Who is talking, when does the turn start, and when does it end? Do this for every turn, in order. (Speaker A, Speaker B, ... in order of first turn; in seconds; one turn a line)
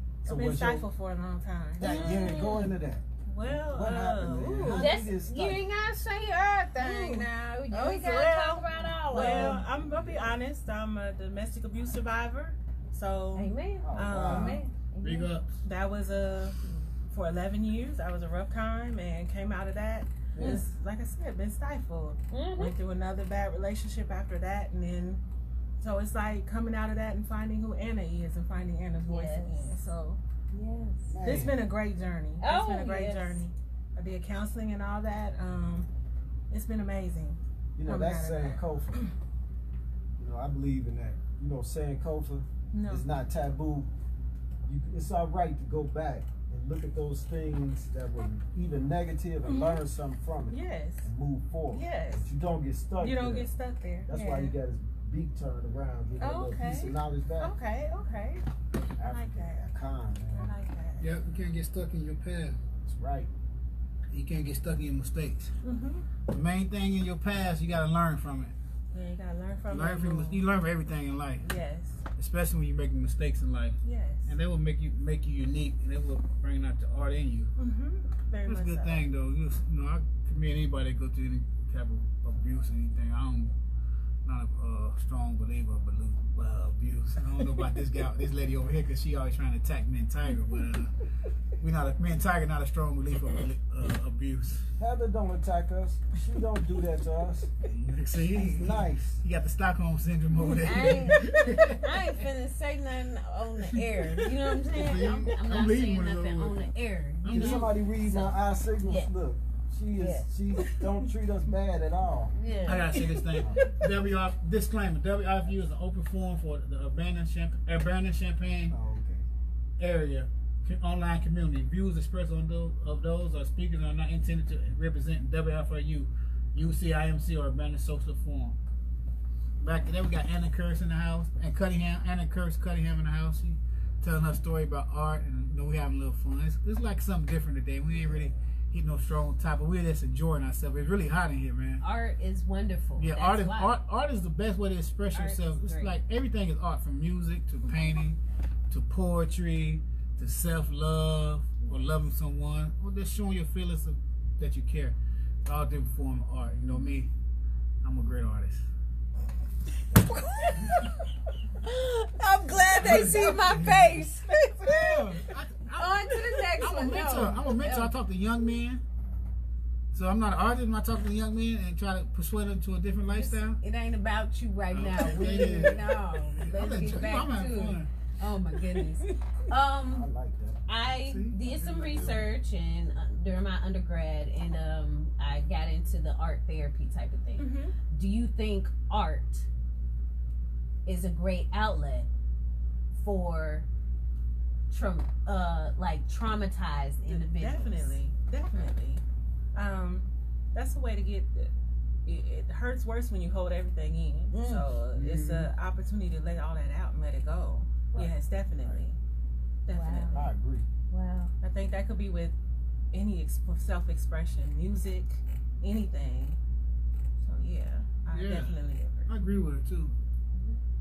Speaker A: 0.2-0.9
Speaker B: 0.2-2.3
Speaker A: 1.8-5.6
Speaker C: 1.8-2.7
Speaker B: 3.3-5.0
Speaker C: 4.7-9.6
Speaker B: 6.8-14.7
Speaker A: 9.1-10.4
Speaker C: 13.4-15.3
Speaker A: 13.8-14.6
Speaker D: 15.0-15.5
Speaker B: 15.6-25.2
Speaker A: 20.3-20.6
Speaker C: 20.4-20.6
Speaker C: 22.3-22.8
Speaker B: 25.8-30.2
Speaker C: 29.1-29.7
Speaker C: 30.5-31.2
Speaker A: 31.1-31.6
Speaker B: 31.2-35.9
Speaker C: 32.4-33.4
Speaker B: 36.5-39.1
Speaker A: 37.8-39.0
Speaker A: 40.2-43.9
Speaker B: 42.7-43.1
Speaker A: 44.7-53.5
Speaker B: 49.5-49.8
Speaker B: 50.5-51.1
Speaker B: 51.7-52.3
Speaker B: 53.0-54.5
Speaker A: 54.1-57.5
Speaker B: 56.2-58.4
Speaker A: 59.0-60.5
Speaker B: 59.0-59.7
Speaker B: 60.2-61.1
Speaker D: 61.0-62.6
Speaker A: 62.8-63.3
Speaker D: 64.1-65.5
Speaker B: 65.6-66.0
Speaker D: 66.3-68.5
Speaker B: 68.9-70.4
Speaker D: 69.7-71.5
Speaker B: 71.4-72.0
Speaker D: 72.2-77.5
Speaker B: 73.8-74.3
Speaker B: 77.6-79.1
Speaker D: 78.5-83.5
Speaker D: 84.2-90.9
Speaker D: 91.6-94.7
Speaker A: 94.8-97.5
Speaker D: 97.7-102.0
Speaker A: 98.3-99.2
Speaker C: 100.4-109.1
Speaker D: 103.7-106.7
Speaker D: 107.2-107.7
Speaker A: 107.3-112.3
Speaker C: 110.0-110.3
Speaker B: 110.6-110.9
Speaker C: 112.3-112.9
Speaker D: 112.7-118.8
Speaker B: 112.9-113.7
Speaker A: 113.4-113.8
Speaker A: 118.7-119.3
Speaker D: 119.8-128.6
Speaker D: 129.6-141.8
Speaker C: 141.8-143.8
Speaker D: 143.0-148.2
Speaker C: 145.1-146.0
Speaker D: 148.7-157.1
Speaker D: 157.8-158.7
Speaker C: 160.0-160.9
Speaker C: 161.6-165.2
Speaker D: 162.8-164.1
Speaker B: 164.6-165.2
Speaker D: 164.7-168.8
Speaker C: 165.8-167.9
Speaker D: 169.9-173.6
Speaker C: 173.1-180.1
Speaker D: 174.7-177.9
Speaker B: 178.7-179.2
Speaker A: 179.9-180.6
Speaker C: 180.7-189.5
Speaker D: 180.9-182.3
Speaker B: 187.4-187.8
Speaker C: 190.9-192.1
Speaker C: 192.9-193.7
Speaker C: 194.7-198.0
Speaker B: 197.1-199.0
Speaker B: 199.6-201.5
Speaker B: 202.1-209.0
Speaker C: 204.3-204.7
Speaker D: 204.9-205.5
Speaker B: 209.7-210.3
Speaker C: 209.7-210.3
Speaker A: 210.1-210.7
Speaker C: 210.9-211.3
Speaker B: 211.4-212.3
Speaker B: 212.9-216.4
Speaker B: 217.2-219.1
Speaker D: 218.1-218.6
Speaker D: 219.1-219.9